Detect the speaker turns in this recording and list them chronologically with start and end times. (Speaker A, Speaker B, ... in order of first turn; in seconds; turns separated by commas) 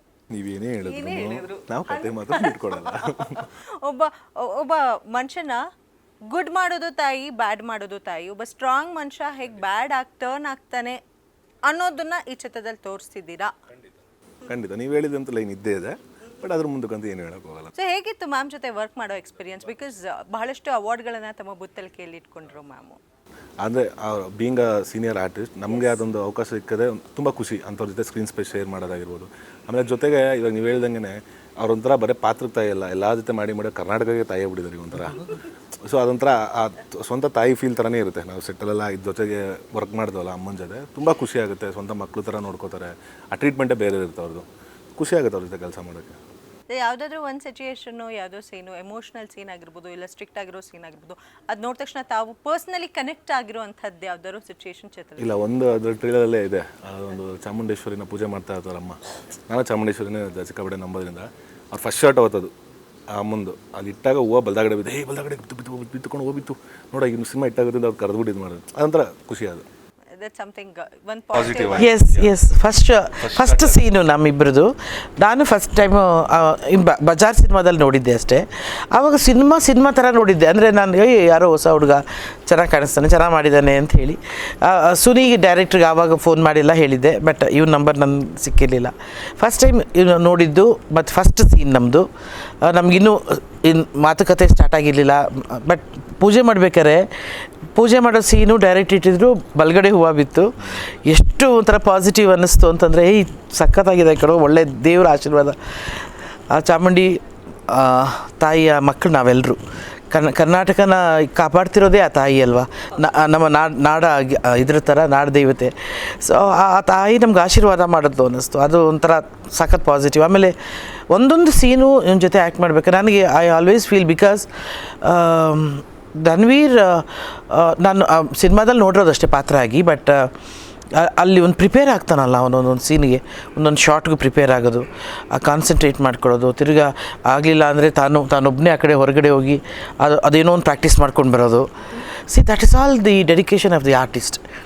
Speaker A: 0.3-3.5, Speaker B: 0.9-5.6, Speaker B: 6.3-11.0, Speaker B: 11.7-13.5, Speaker A: 14.5-17.7, Speaker B: 17.8-23.0, Speaker A: 23.6-35.3, Speaker A: 35.9-44.5, Speaker A: 45.0-46.2, Speaker B: 46.7-55.4, Speaker A: 55.2-59.0, Speaker A: 59.5-62.5, Speaker A: 63.2-69.7, Speaker B: 70.2-72.0, Speaker A: 71.3-72.4, Speaker C: 71.7-92.1, Speaker A: 73.2-73.8, Speaker C: 92.6-97.1, Speaker C: 97.8-120.5, Speaker C: 121.1-130.3, Speaker C: 130.9-144.4